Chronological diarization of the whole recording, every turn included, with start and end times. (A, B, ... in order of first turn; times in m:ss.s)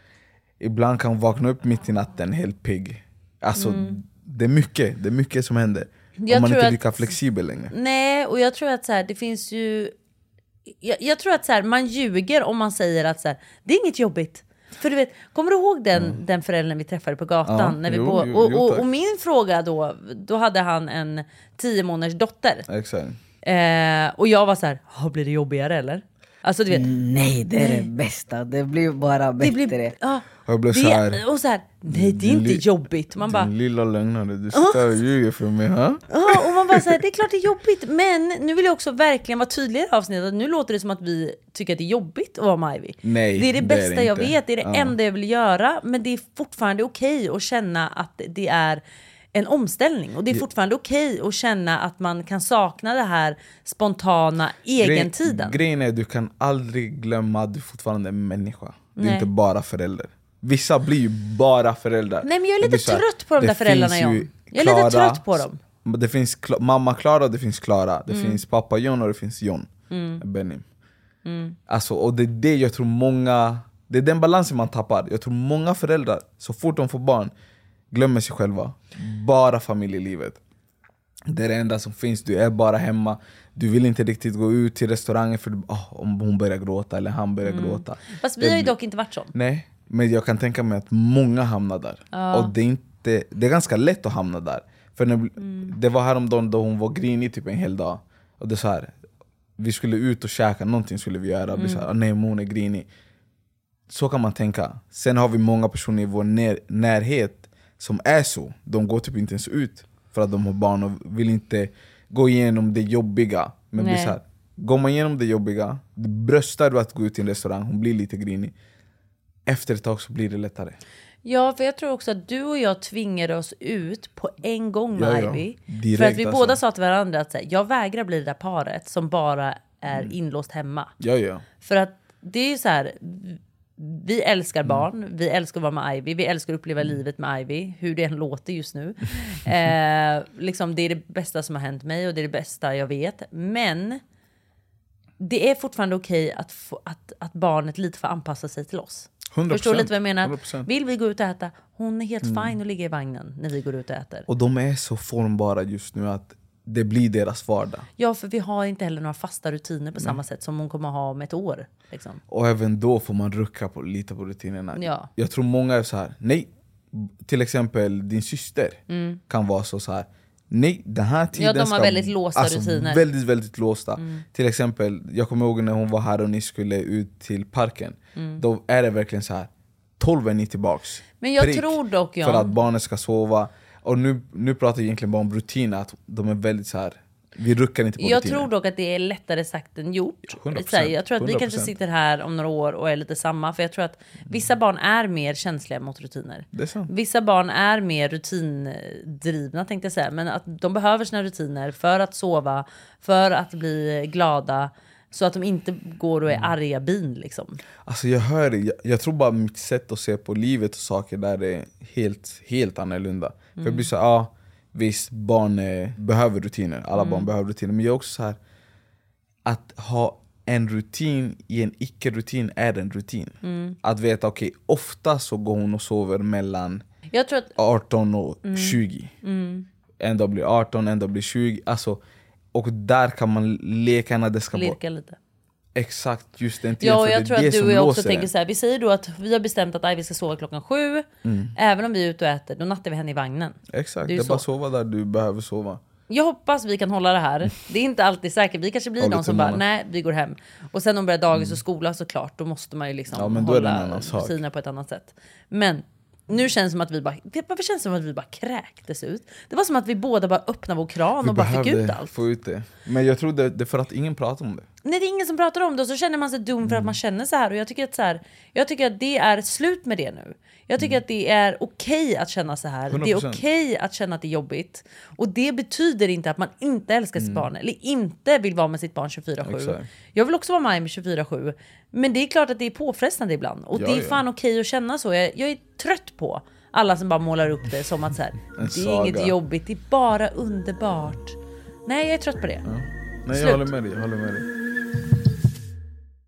0:00.6-0:07.7 A
0:03.6-0:04.0 B
0:06.2-0:07.2 B
0:07.7-0:09.9 B
0:10.8-0:22.7 B
0:15.9-0:16.2 A
0:17.4-0:18.9 A
0:22.7-0:23.2 A
0:23.4-0:26.8 B
0:26.7-0:30.0 C
0:27.6-0:27.9 B
0:29.4-0:33.5 B
0:30.4-0:31.2 A
0:31.9-0:36.8 A
0:34.5-0:34.8 B
0:36.1-0:48.8 B
0:43.0-0:44.9 A
0:49.3-0:55.6 B
0:54.8-1:10.6 A
0:59.0-0:59.3 B
1:02.2-1:05.6 B
1:08.1-1:08.4 B
1:09.9-1:10.2 B
1:11.2-1:11.6 B
1:11.7-1:17.3 A
1:17.9-1:20.4 A
1:21.3-1:28.7 A
1:27.4-1:29.3 B
1:29.3-1:38.9 A
1:32.1-1:32.5 B
1:35.4-1:35.7 B
1:39.6-1:42.9 A
1:41.5-1:41.8 B
1:43.9-1:58.5 A
1:53.8-1:54.2 B
1:59.4-2:00.8 A
2:01.2-2:10.9 B
2:04.9-2:06.6 A
2:11.0-2:11.4 A
2:11.6-2:24.0 B
2:25.2-2:34.3 B
2:29.3-2:30.7 A
2:32.2-2:32.5 A
2:34.3-2:37.8 A
2:38.0-2:42.2 B
2:42.3-3:08.5 A
2:44.7-2:45.1 B
2:48.9-2:49.2 B
2:51.3-2:53.0 B
2:54.0-2:54.2 B
2:58.2-2:58.4 B
3:01.2-3:02.6 B
3:08.0-3:27.6 B
3:10.3-3:11.7 A
3:16.5-3:16.9 A
3:27.8-3:38.4 A
3:33.6-3:33.9 B
3:37.0-3:37.3 B
3:39.4-3:46.8 A
3:43.4-3:43.8 B
3:47.1-3:47.5 B
3:47.6-3:49.1 A
3:48.4-3:49.6 B
3:50.0-3:52.0 A
3:52.5-3:54.8 A
3:54.5-3:55.2 B
3:55.7-3:58.3 A
3:56.8-4:04.4 B
4:01.2-4:01.5 A
4:03.7-4:05.8 A
4:06.1-4:22.1 B
4:09.0-4:09.6 A
4:11.3-4:11.6 A
4:13.1-4:14.4 A
4:21.2-4:24.7 A
4:24.8-4:52.6 B
4:26.6-4:27.0 A
4:32.9-4:33.4 A
4:37.2-4:37.5 A
4:39.4-4:39.9 A
4:43.7-4:44.2 A
4:48.6-4:49.3 A
4:52.6-4:54.5 A
4:53.3-4:53.7 B